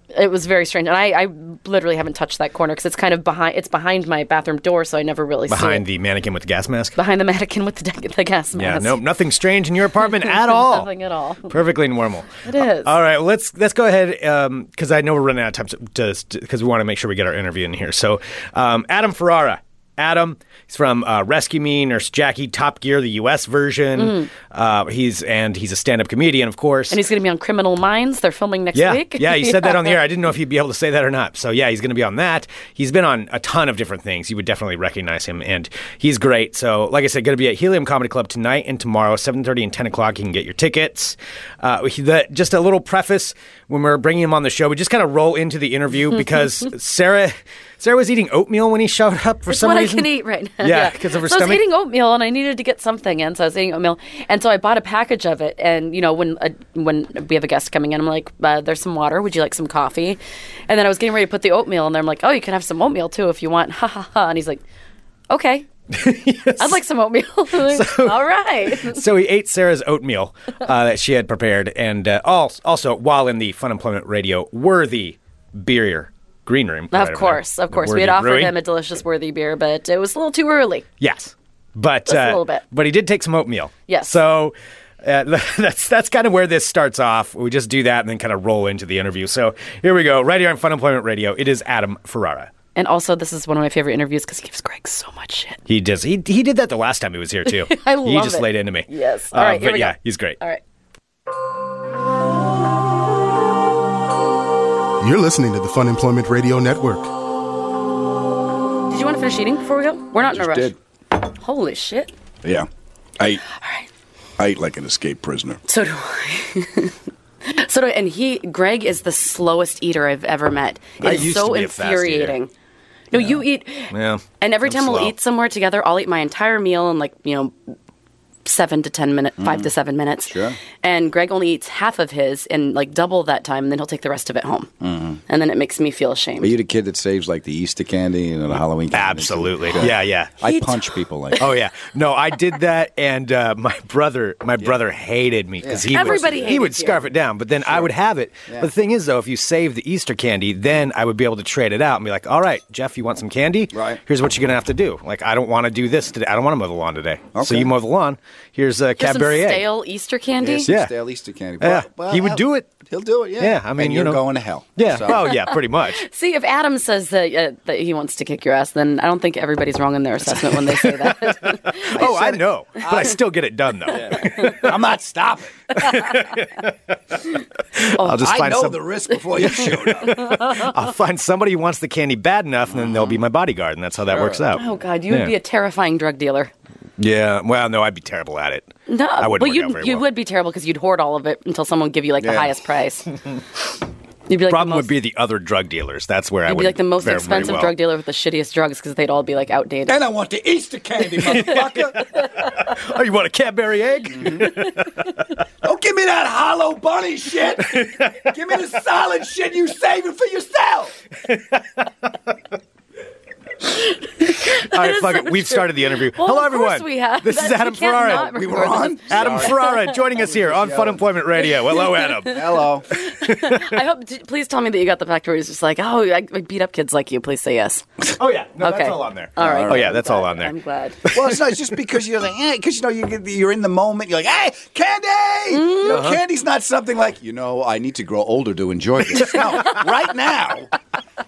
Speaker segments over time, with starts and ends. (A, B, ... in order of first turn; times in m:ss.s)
0:00.1-0:05.8 A
0:05.5-0:07.0 B
0:07.0-0:09.0 A
0:08.6-0:10.9 B
0:10.0-0:11.5 A
0:11.5-0:27.0 B
0:12.4-0:12.9 A
0:24.0-0:24.3 A
0:26.9-0:30.0 A
0:28.7-0:51.6 B
0:49.5-1:04.6 A
1:05.3-1:05.7 A
1:05.9-1:06.8 B
1:06.6-1:09.0 A
1:07.6-1:18.6 B
1:16.9-1:20.9 A
1:21.0-1:32.5 B
1:22.1-1:22.6 A
1:23.9-1:24.2 A
1:32.8-1:35.6 A
1:35.7-1:40.4 B
1:37.5-1:40.6 A
1:45.0-1:47.1 C
1:48.9-1:52.1 A
1:50.2-1:50.8 D
1:53.5-1:53.9 A
1:54.4-1:55.6 D
1:55.7-2:02.5 A
2:01.0-2:02.4 B
2:03.1-2:07.6 A
2:03.9-2:05.1 B
2:08.4-2:14.7 A
2:09.4-2:09.7 D
2:10.3-2:10.6 D
2:14.8-2:15.2 D
2:15.3-2:16.6 A
2:16.4-2:21.5 D
2:18.9-2:20.4 B
2:20.4-2:21.5 A
2:21.4-2:39.7 B
2:25.6-2:26.5 D
2:25.9-2:27.0 A
2:27.6-2:27.9 D
2:33.7-2:34.0 D
2:37.4-2:37.7 D
2:39.0-2:40.7 A
2:40.4-2:45.2 D
2:40.7-2:40.9 B
2:41.6-2:42.7 B
2:43.4-2:44.2 B
2:44.8-2:46.0 B
2:45.1-2:52.0 A
2:50.3-2:54.6 B
2:51.9-2:53.2 D
2:53.9-2:55.9 D
2:54.1-2:54.7 A
2:55.8-2:56.4 A
2:55.8-2:56.9 B
2:57.8-3:05.3 B
2:57.8-2:58.3 A
2:58.2-3:00.2 D
2:59.4-3:00.7 A
3:04.1-3:04.4 D
3:04.5-3:06.5 A
3:07.0-3:10.0 B
3:08.9-3:13.1 A
3:12.2-3:12.5 D
3:14.3-3:14.9 A
3:14.5-3:17.8 B
3:16.5-3:20.0 A
3:19.9-3:22.1 D
3:21.2-3:22.4 A
3:21.4-3:21.8 B
3:22.4-3:25.1 B
3:24.1-3:24.7 D
3:25.6-3:31.0 D
3:27.6-3:28.3 B
3:31.2-3:31.9 B
3:33.8-3:40.0 A
3:34.2-3:43.8 B
3:38.0-3:41.0 D
3:41.6-3:47.9 A
3:42.2-3:42.9 D
3:48.2-3:50.5 B
3:48.6-3:51.1 A
3:49.4-3:50.0 D
3:51.1-3:51.5 B
3:51.1-4:00.7 D
3:55.5-3:56.1 A
3:55.9-3:56.2 B
3:59.2-3:59.8 B